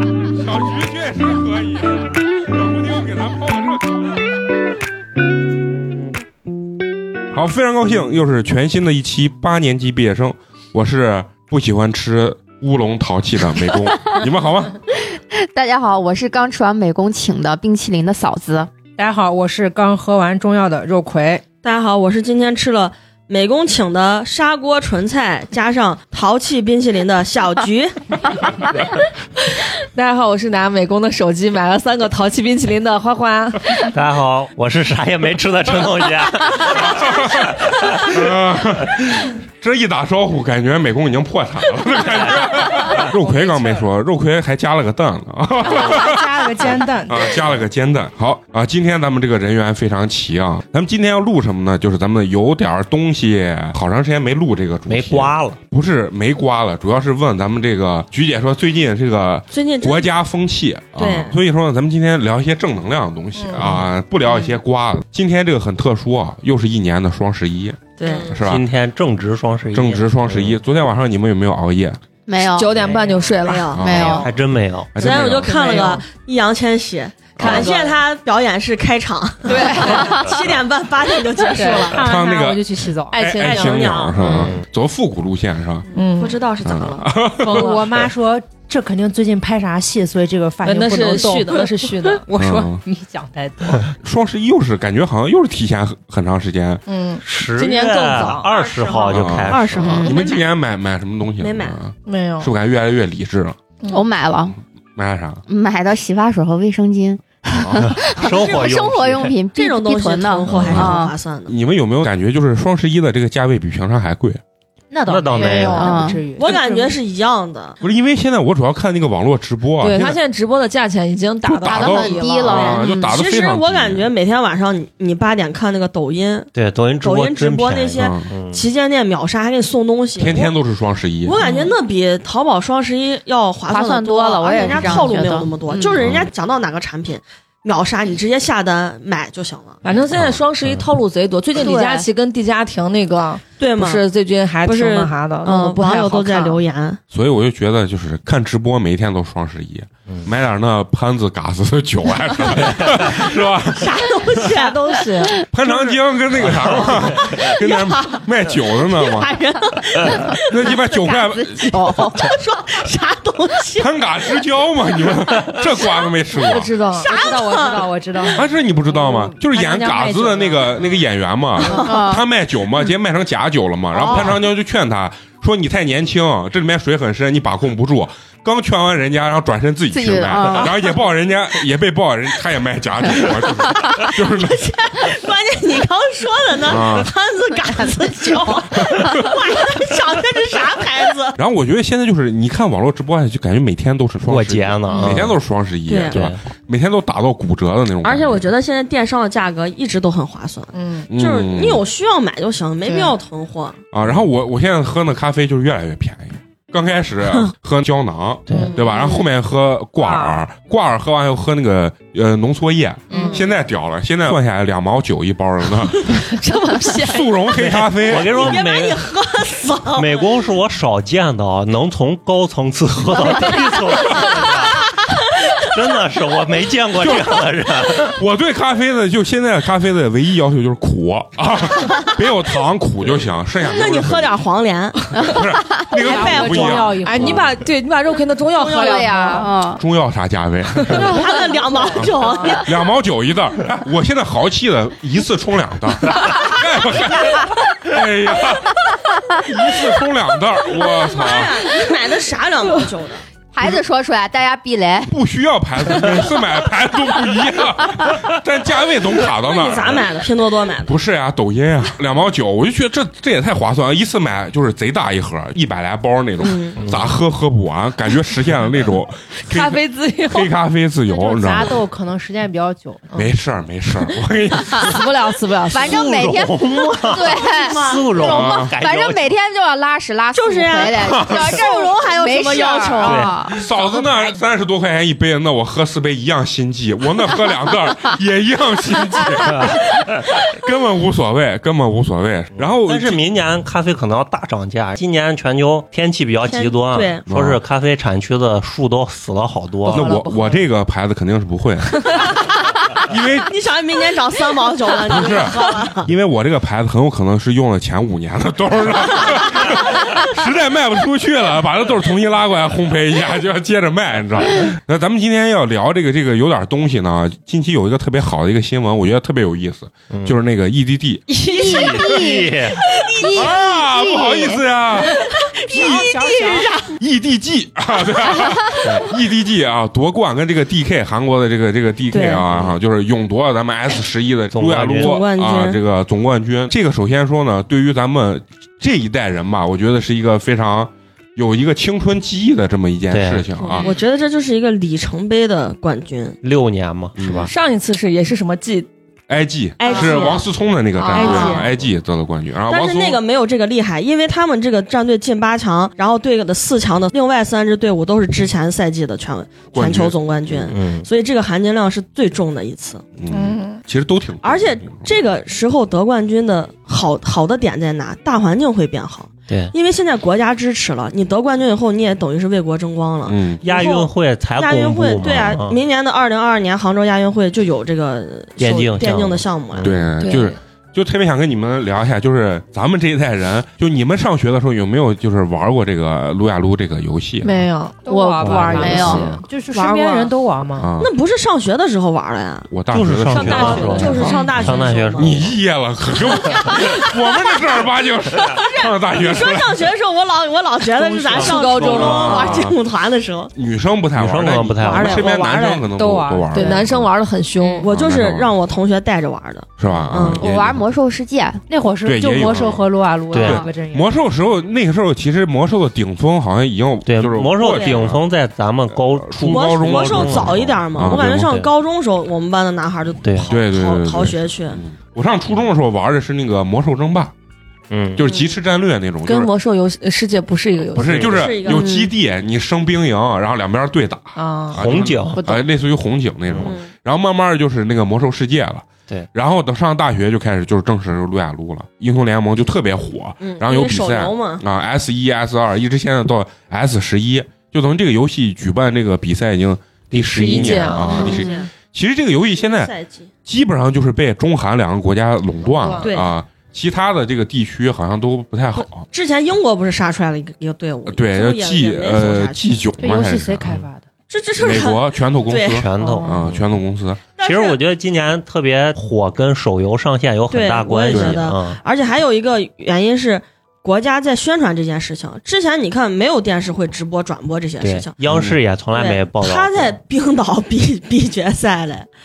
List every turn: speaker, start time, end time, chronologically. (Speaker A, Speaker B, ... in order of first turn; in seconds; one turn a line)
Speaker A: 0.2-4.2
Speaker A: 7.3-14.8
Speaker B: 15.1-18.7
Speaker C: 18.9-21.4
Speaker D: 21.6-28.4
Speaker E: 29.4-33.9
Speaker F: 33.9-38.2
Speaker A: 36.6-68.7
Speaker C: 42.7-43.9
Speaker C: 45.6-47.5
Speaker F: 54.9-55.6
Speaker D: 59.5-60.1
Speaker D: 61.0-61.4
Speaker D: 68.0-68.3
Speaker F: 68.4-70.6
Speaker A: 69.7-72.0
Speaker B: 72.3-72.8
Speaker E: 72.4-73.8
Speaker C: 72.8-73.4
Speaker D: 73.4-74.3
Speaker A: 73.7-74.3
Speaker B: 73.8-74.3
Speaker F: 74.2-75.2
Speaker A: 74.9-75.8
Speaker D: 75.0-82.1
Speaker E: 75.5-76.0
Speaker F: 77.4-77.7
Speaker E: 77.4-78.0
Speaker E: 79.5-80.2
Speaker C: 79.8-80.3
Speaker C: 81.5-84.0
Speaker E: 81.5-81.9
Speaker A: 81.9-85.8
Speaker E: 83.1-84.2
Speaker D: 83.5-84.1
Speaker F: 84.2-84.6
Speaker E: 85.9-86.4
Speaker D: 86.2-87.1
Speaker A: 86.6-88.1
Speaker C: 87.4-93.9
Speaker E: 87.5-87.8
Speaker E: 90.6-92.2
Speaker A: 92.4-92.8
Speaker A: 94.0-96.8
Speaker E: 96.9-98.5
Speaker F: 97.2-100.2
Speaker D: 98.4-100.5
Speaker A: 99.1-103.6
Speaker D: 101.4-101.8
Speaker E: 102.1-102.5
Speaker B: 103.9-104.6
Speaker A: 105.0-105.4
Speaker B: 105.5-111.1
Speaker A: 107.5-108.0
Speaker F: 107.8-109.4
Speaker D: 108.2-108.9
Speaker D: 109.5-111.6
Speaker F: 110.5-110.8
Speaker A: 110.7-114.4
Speaker C: 114.9-117.0
Speaker F: 115.1-116.0
Speaker B: 115.6-116.3
Speaker D: 116.4-117.8
Speaker A: 117.8-120.2
Speaker E: 119.8-122.7
Speaker A: 121.5-124.1
Speaker B: 121.6-123.2
Speaker D: 122.6-126.5
Speaker F: 126.5-128.7
Speaker D: 127.0-130.5
Speaker A: 128.0-128.3
Speaker A: 130.2-131.4
Speaker D: 131.2-139.8
Speaker B: 131.4-131.7
Speaker B: 133.7-136.0
Speaker A: 136.0-136.3
Speaker E: 139.8-146.6
Speaker F: 140.1-140.9
Speaker D: 141.6-142.0
Speaker B: 141.6-141.9
Speaker D: 143.6-144.0
Speaker D: 144.7-147.0
Speaker A: 147.1-154.1
Speaker D: 152.6-155.2
Speaker C: 154.5-155.9
Speaker E: 154.5-155.3
Speaker A: 155.5-159.5
Speaker F: 156.4-157.4
Speaker D: 157.1-161.2
Speaker A: 160.3-162.1
Speaker B: 161.1-162.2
Speaker D: 161.7-164.0
Speaker A: 163.8-166.7
Speaker D: 165.6-166.1
Speaker E: 166.4-167.1
Speaker C: 166.8-168.5
Speaker D: 167.0-168.3
Speaker A: 168.3-184.7
Speaker C: 169.0-170.9
Speaker C: 171.6-172.0
Speaker B: 171.7-172.2
Speaker B: 179.9-180.9
Speaker D: 183.2-191.4
Speaker A: 186.6-187.1
Speaker A: 191.4-198.4
Speaker F: 194.3-195.4
Speaker E: 194.9-195.1
Speaker D: 195.9-196.2
Speaker F: 196.1-196.4
Speaker D: 198.0-203.8
Speaker E: 200.7-201.1
Speaker A: 201.1-201.8
Speaker E: 202.9-203.1
Speaker A: 203.9-216.3
Speaker F: 208.5-208.8
Speaker E: 208.5-209.1
Speaker E: 210.0-210.4
Speaker E: 213.1-213.4
Speaker E: 216.3-217.5
Speaker A: 216.9-218.6
Speaker F: 217.6-219.1
Speaker D: 218.3-220.3
Speaker F: 219.9-224.9
Speaker D: 223.1-225.8
Speaker F: 225.5-228.2
Speaker A: 227.0-234.3
Speaker D: 231.8-232.3
Speaker D: 233.6-237.0
Speaker A: 235.2-237.4
Speaker B: 235.8-236.2
Speaker C: 236.0-237.5
Speaker E: 237.0-239.5
Speaker B: 238.5-239.8
Speaker A: 239.8-241.2
Speaker D: 240.9-242.7
Speaker A: 242.6-248.9
Speaker A: 249.4-251.7
Speaker D: 250.8-253.2
Speaker B: 253.5-255.1
Speaker A: 255.1-260.1
Speaker D: 259.3-260.9
Speaker A: 260.8-271.8
Speaker D: 266.4-266.8
Speaker F: 266.8-267.0
Speaker E: 269.4-270.5
Speaker C: 271.1-273.3
Speaker A: 273.1-275.0
Speaker E: 274.8-276.1
Speaker B: 275.7-283.6
Speaker F: 275.8-279.3
Speaker D: 277.1-278.5
Speaker A: 278.2-278.8
Speaker D: 280.3-283.4
Speaker A: 281.0-281.6
Speaker F: 283.0-283.3
Speaker A: 283.5-293.3
Speaker F: 292.6-300.1
Speaker D: 296.4-297.2
Speaker A: 297.3-297.6
Speaker A: 299.9-302.3
Speaker C: 299.9-300.7
Speaker A: 303.0-303.5
Speaker D: 303.4-306.1
Speaker A: 305.1-321.4
Speaker F: 320.1-320.4
Speaker D: 321.4-323.5
Speaker F: 321.6-322.8
Speaker B: 321.6-322.6
Speaker B: 323.2-324.6
Speaker A: 323.3-326.2
Speaker D: 325.1-327.0
Speaker C: 325.7-326.7
Speaker A: 326.9-343.9
Speaker F: 328.8-329.1
Speaker D: 332.1-332.5
Speaker F: 334.5-335.2
Speaker D: 335.0-335.8
Speaker F: 343.1-343.5
Speaker D: 343.6-346.4
Speaker F: 346.4-347.5
Speaker A: 347.2-347.5
Speaker E: 347.5-348.9
Speaker A: 349.3-353.2
Speaker D: 349.8-350.5
Speaker E: 349.9-350.4
Speaker E: 351.0-351.7
Speaker D: 351.1-351.7
Speaker D: 352.7-363.0
Speaker A: 359.7-360.7
Speaker F: 360.7-361.1
Speaker A: 363.2-365.1
Speaker E: 363.3-363.8
Speaker D: 364.4-379.9
Speaker F: 369.5-369.8
Speaker A: 373.3-373.6
Speaker F: 373.6-375.8
Speaker A: 375.2-375.6
Speaker F: 378.6-379.9
Speaker A: 379.8-387.5
Speaker E: 380.2-380.6
Speaker E: 387.4-389.4
Speaker C: 388.1-390.9
Speaker F: 388.4-389.4
Speaker B: 388.8-389.3
Speaker D: 389.7-390.3
Speaker A: 390.8-391.1
Speaker D: 391.0-392.7
Speaker A: 392.7-399.9
Speaker F: 392.9-395.6
Speaker E: 393.3-394.5
Speaker C: 393.4-394.4
Speaker D: 393.4-395.4
Speaker D: 396.5-397.6
Speaker D: 398.4-403.5
Speaker C: 401.0-401.7
Speaker E: 401.0-402.6
Speaker A: 401.4-402.8
Speaker A: 403.5-407.1
Speaker F: 404.1-405.2
Speaker C: 404.8-406.9
Speaker E: 406.5-407.9
Speaker D: 407.8-410.4
Speaker A: 407.9-408.5
Speaker A: 409.8-410.8
Speaker F: 409.9-410.5
Speaker B: 410.4-411.6
Speaker C: 411.7-414.1
Speaker A: 412.0-418.2
Speaker F: 413.3-413.7
Speaker F: 417.1-421.7
Speaker D: 417.6-418.0
Speaker A: 418.9-421.4
Speaker D: 419.4-424.8
Speaker F: 423.2-423.6
Speaker A: 423.5-427.3
Speaker F: 427.9-428.2
Speaker A: 428.1-429.5
Speaker E: 429.3-431.3
Speaker A: 430.9-452.9
Speaker F: 431.0-431.5
Speaker D: 431.2-431.9
Speaker B: 431.7-432.1
Speaker E: 434.4-434.8
Speaker F: 434.8-435.4
Speaker E: 435.3-435.6
Speaker D: 436.6-436.9
Speaker D: 443.4-444.6
Speaker F: 450.1-451.4
Speaker E: 450.1-451.4
Speaker B: 451.1-451.6
Speaker D: 451.1-451.7
Speaker D: 452.6-453.3
Speaker A: 453.5-459.1
Speaker E: 455.7-456.1
Speaker D: 456.0-456.3
Speaker D: 458.8-462.8
Speaker A: 461.1-463.8
Speaker C: 463.0-464.1
Speaker D: 464.3-465.9
Speaker A: 464.6-467.2
Speaker F: 465.6-466.6
Speaker C: 466.0-466.5
Speaker D: 467.4-467.8
Speaker F: 467.4-471.8
Speaker D: 470.5-478.1
Speaker A: 471.1-471.5
Speaker F: 477.8-480.0
Speaker A: 478.3-478.6
Speaker D: 478.9-482.1